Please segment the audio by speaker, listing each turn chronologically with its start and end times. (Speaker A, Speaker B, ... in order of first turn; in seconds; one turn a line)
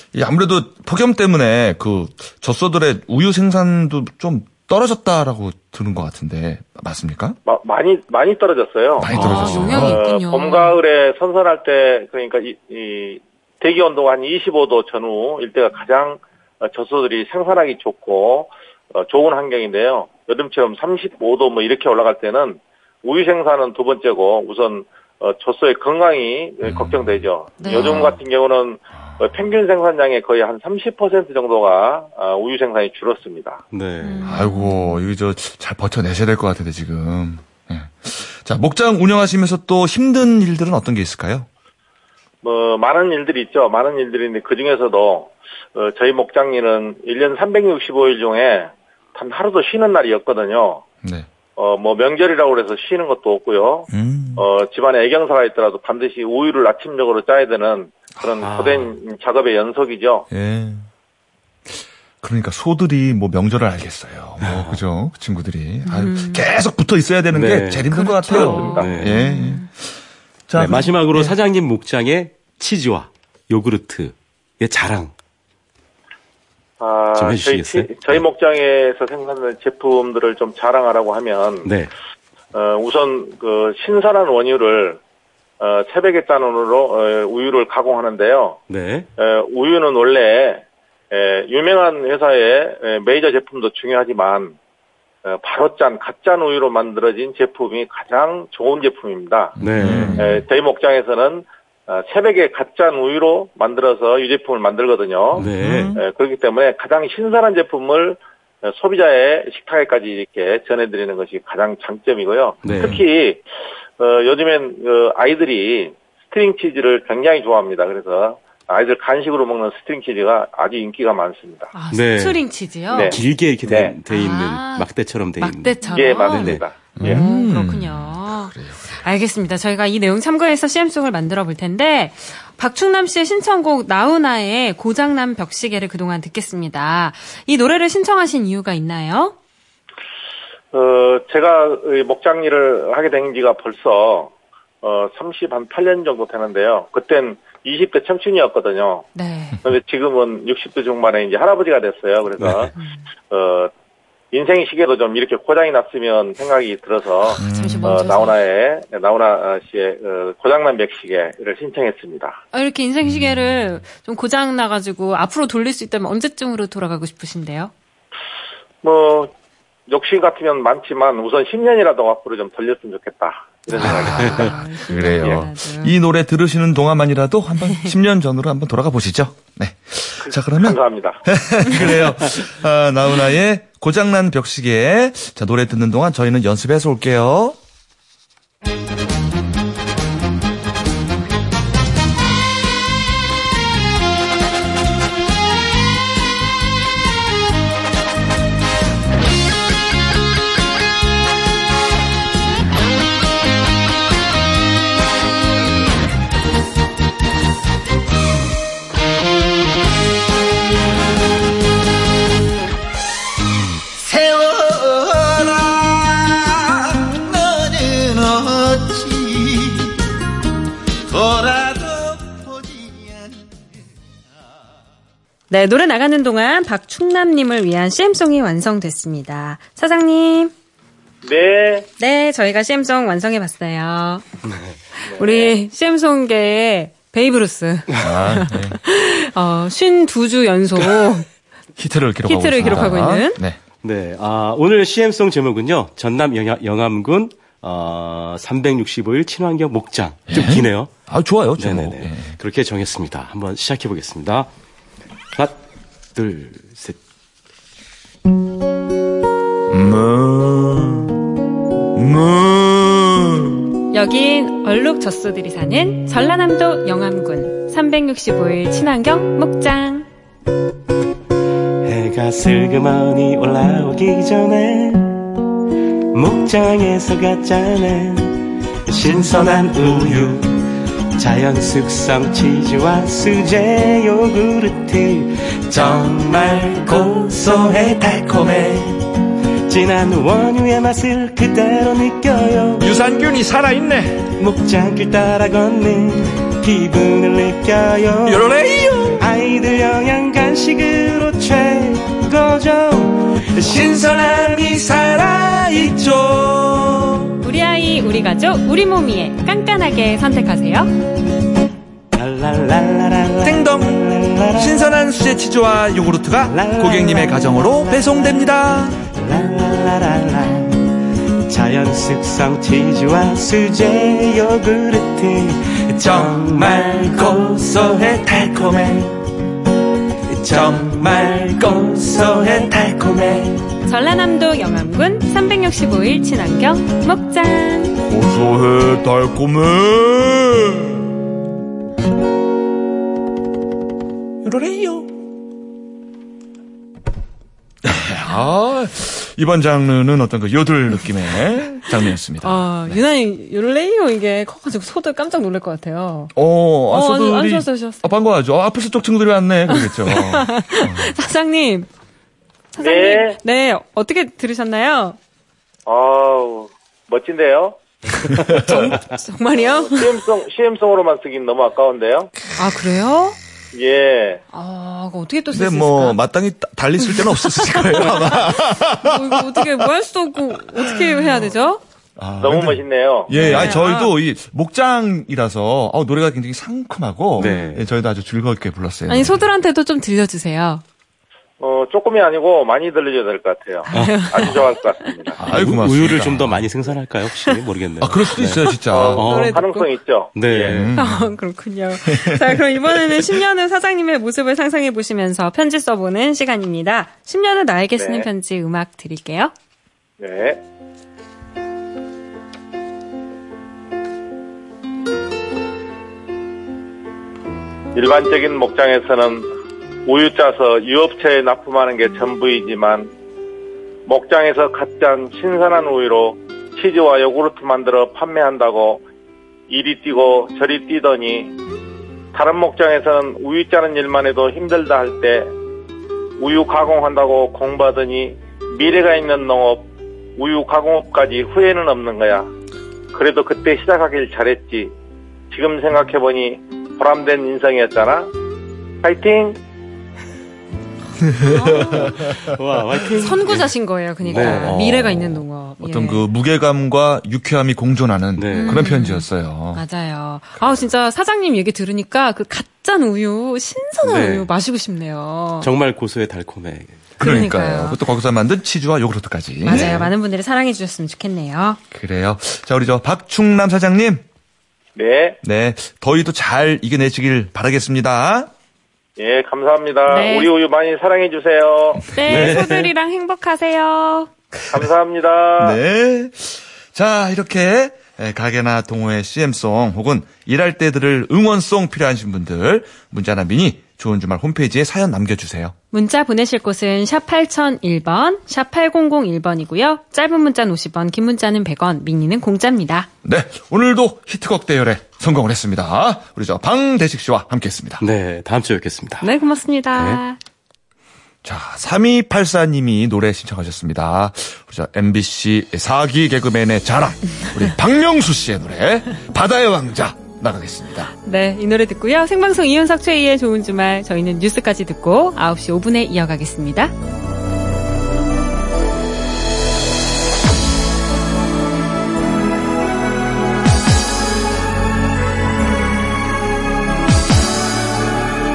Speaker A: 0.1-7.4
Speaker B: 7.5-33.6
Speaker A: 9.0-10.0
Speaker C: 9.1-9.7
Speaker D: 9.1-10.8
Speaker A: 26.6-27.2
Speaker D: 27.6-28.2
Speaker C: 33.7-34.3
Speaker D: 34.0-35.0
Speaker A: 34.2-41.5
Speaker B: 42.4-50.8
Speaker B: 51.5-60.3
Speaker A: 53.9-54.5
Speaker C: 58.4-59.0
Speaker A: 60.3-60.9
Speaker A: 61.7-69.9
Speaker C: 64.4-64.8
Speaker D: 65.8-66.5
Speaker C: 67.3-69.2
Speaker D: 67.9-69.7
Speaker B: 68.5-69.0
Speaker A: 70.5-71.3
Speaker C: 70.5-75.1
Speaker B: 76.8-81.7
Speaker C: 77.1-78.2
Speaker C: 81.6-81.9
Speaker B: 82.5-85.0
Speaker B: 85.6-88.6
Speaker C: 88.7-89.1
Speaker B: 89.2-94.6
Speaker B: 95.2-113.4
Speaker A: 99.6-100.4
Speaker C: 99.6-100.2
Speaker C: 105.3-106.0
Speaker A: 105.3-106.0
Speaker C: 112.6-113.0
Speaker B: 114.0-121.7
Speaker D: 121.7-123.2
Speaker C: 121.9-126.6
Speaker B: 122.9-124.0
Speaker D: 124.1-139.3
Speaker B: 125.8-127.2
Speaker A: 127.0-129.1
Speaker B: 140.7-149.1
Speaker D: 149.1-149.6
Speaker B: 149.6-152.7
Speaker B: 153.3-153.7
Speaker B: 154.3-162.4
Speaker D: 157.3-158.3
Speaker A: 157.4-158.0
Speaker D: 162.5-167.7
Speaker A: 163.0-163.8
Speaker B: 168.8-169.3
Speaker B: 169.9-174.6
Speaker D: 173.7-175.9
Speaker A: 173.8-187.6
Speaker B: 175.1-175.4
Speaker D: 177.6-177.9
Speaker B: 180.2-181.2
Speaker E: 213.9-220.0
Speaker E: 221.1-223.6
Speaker D: 225.5-230.5
Speaker B: 231.2-231.9
Speaker D: 232.0-234.2
Speaker D: 234.9-241.3
Speaker B: 235.0-235.5
Speaker A: 238.0-238.8
Speaker A: 241.8-243.6
Speaker D: 242.2-243.4
Speaker C: 243.8-250.9
Speaker A: 250.3-252.3
Speaker C: 251.6-254.5
Speaker C: 256.1-257.0
Speaker A: 259.7-261.2
Speaker A: 261.9-263.7
Speaker D: 263.9-270.1
Speaker C: 271.8-275.3
Speaker C: 276.1-280.6
Speaker C: 281.1-289.1
Speaker C: 289.7-292.9
Speaker A: 292.8-294.3
Speaker C: 294.4-298.5
Speaker A: 298.2-299.2
Speaker C: 299.1-304.3
Speaker A: 303.5-307.3
Speaker D: 307.4-310.9
Speaker C: 312.1-314.8
Speaker A: 313.4-319.0
Speaker C: 316.5-318.6
Speaker C: 319.1-320.9
Speaker C: 321.5-329.2
Speaker A: 326.0-326.4
Speaker C: 330.4-333.6
Speaker A: 330.5-330.8
Speaker D: 333.9-338.0
Speaker A: 338.0-341.1
Speaker A: 344.4-345.1
Speaker A: 347.8-353.0
Speaker D: 352.4-356.3
Speaker A: 356.3-361.1
Speaker D: 356.9-358.0
Speaker D: 359.7-361.9
Speaker D: 362.7-365.2
Speaker B: 362.8-363.4
Speaker B: 365.9-367.8
Speaker D: 368.6-370.1
Speaker B: 369.5-372.3
Speaker D: 372.6-373.4
Speaker B: 373.7-374.4
Speaker D: 374.5-376.2
Speaker A: 375.5-379.7
Speaker D: 377.0-381.8
Speaker A: 380.9-381.4
Speaker A: 382.2-389.5
Speaker B: 382.4-383.4
Speaker D: 383.3-384.1
Speaker C: 383.4-383.8
Speaker C: 387.4-387.9
Speaker D: 387.4-387.8
Speaker D: 389.1-390.8
Speaker B: 391.6-395.4
Speaker D: 393.9-395.3
Speaker C: 393.9-394.6
Speaker A: 395.4-396.7
Speaker C: 395.5-399.6
Speaker A: 398.0-399.3
Speaker B: 398.9-400.9
Speaker D: 399.0-399.9
Speaker C: 400.3-400.9
Speaker A: 400.6-401.3
Speaker D: 400.9-409.5
Speaker A: 402.0-403.0
Speaker B: 408.0-408.3
Speaker B: 410.2-410.6
Speaker B: 417.9-419.5
Speaker B: 420.1-423.1
Speaker B: 424.1-429.0
Speaker B: 429.7-431.5
Speaker B: 432.3-435.5
Speaker B: 436.4-442.5
Speaker B: 443.1-444.9
Speaker B: 445.5-448.3
Speaker B: 449.0-449.6
Speaker A: 451.2-452.6
Speaker D: 451.4-452.1
Speaker C: 452.0-453.7
Speaker D: 453.1-456.2
Speaker C: 454.2-454.8
Speaker A: 454.3-459.8
Speaker C: 458.4-458.9
Speaker D: 458.5-465.7
Speaker C: 464.0-464.5
Speaker C: 465.6-467.2
Speaker D: 467.2-468.0
Speaker A: 467.2-470.1
Speaker D: 469.6-471.8
Speaker C: 469.7-470.0
Speaker A: 471.9-474.2
Speaker B: 474.9-475.4
Speaker A: 475.4-478.5
Speaker B: 479.2-482.1
Speaker D: 480.1-480.5
Speaker D: 482.1-484.3
Speaker C: 482.3-482.9
Speaker B: 484.7-485.8
Speaker A: 485.6-495.7
Speaker D: 495.9-503.1
Speaker A: 503.2-508.0
Speaker C: 508.0-509.3
Speaker D: 509.2-510.4
Speaker C: 509.9-510.2
Speaker A: 511.4-521.1
Speaker D: 521.2-526.9